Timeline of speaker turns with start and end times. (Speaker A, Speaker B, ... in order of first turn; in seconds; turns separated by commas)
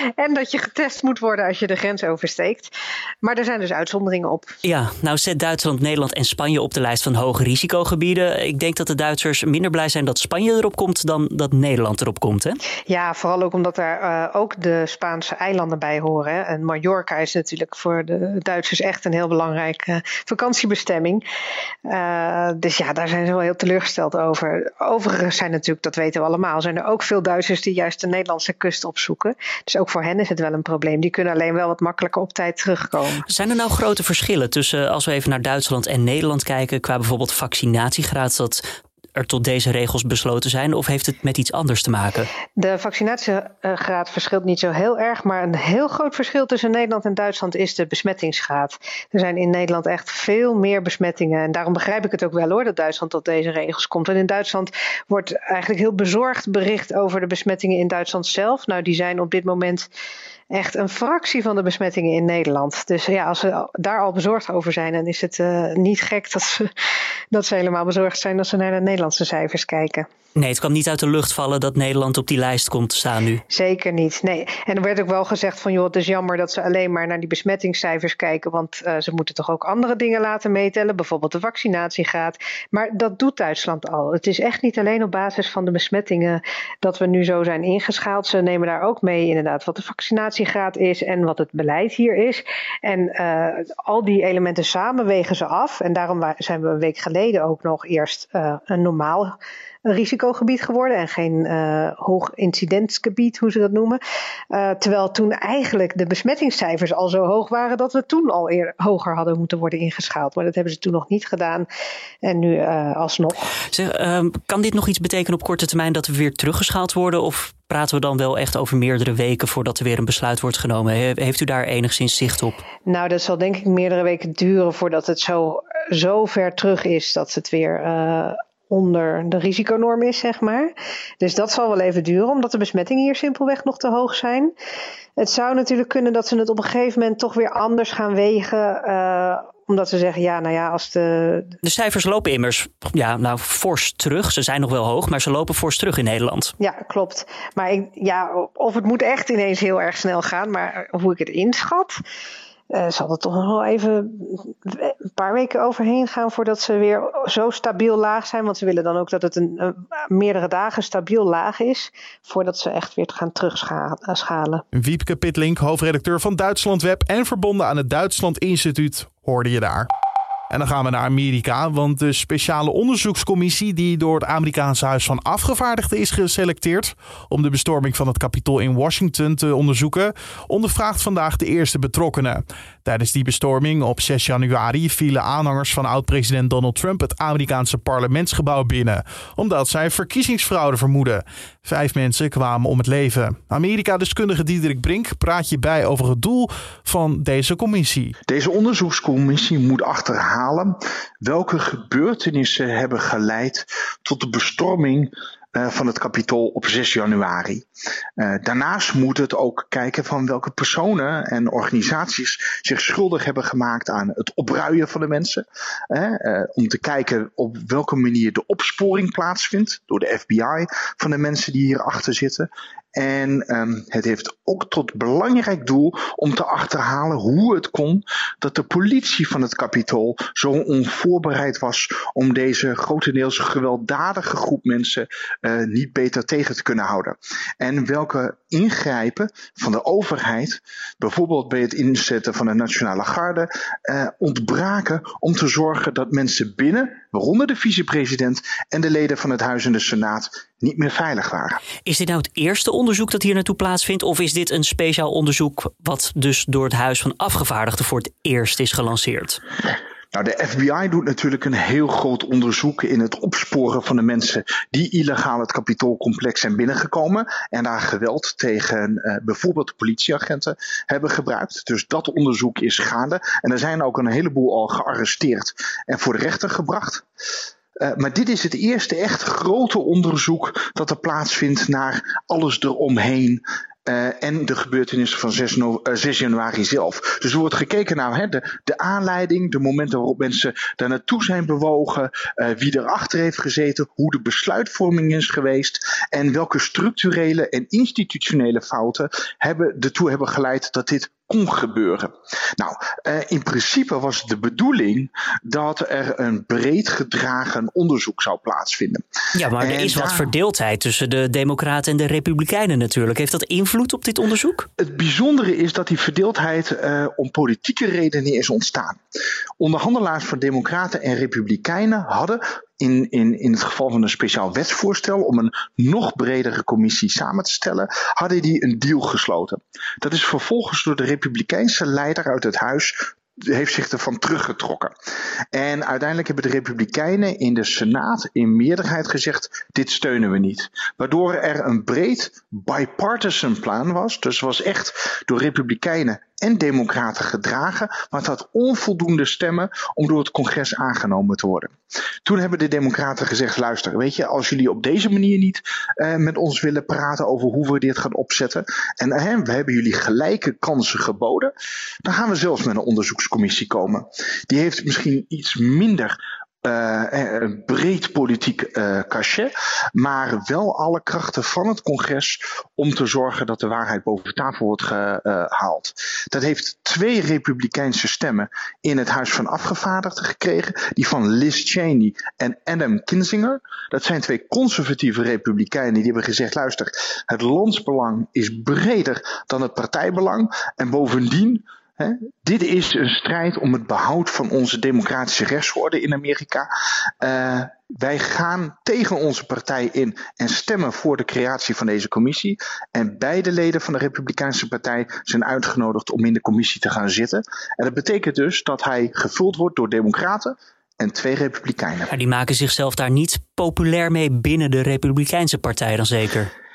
Speaker A: 0.2-4.5, Speaker B: 4.6-12.6, Speaker A: 12.9-21.2, Speaker A: 21.9-33.2, Speaker B: 33.3-38.6, Speaker B: 39.1-42.3, Speaker A: 42.6-59.9, Speaker A: 60.5-66.7, Speaker A: 67.3-70.1, Speaker B: 70.4-73.4, Speaker A: 73.5-104.0, Speaker A: 104.5-111.7, Speaker A: 112.2-113.5, Speaker B: 113.7-122.6, Speaker A: 122.9-134.5, Speaker A: 135.2-141.6, Speaker B: 141.6-146.5, Speaker A: 146.6-152.0, Speaker A: 152.7-164.6, Speaker C: 164.7-169.9, Speaker C: 170.5-198.2, Speaker D: 198.3-207.7, Speaker D: 208.2-251.6, Speaker B: 251.8-259.4, Speaker D: 260.1-277.0, Speaker D: 277.8-309.0, Speaker B: 309.4-314.7, Speaker D: 309.6-310.3, Speaker D: 314.8-319.0, Speaker D: 319.6-334.9, Speaker D: 335.5-351.7, Speaker D: 352.2-361.5, Speaker D: 362.0-396.7, Speaker D: 397.2-412.1, Speaker B: 412.1-416.5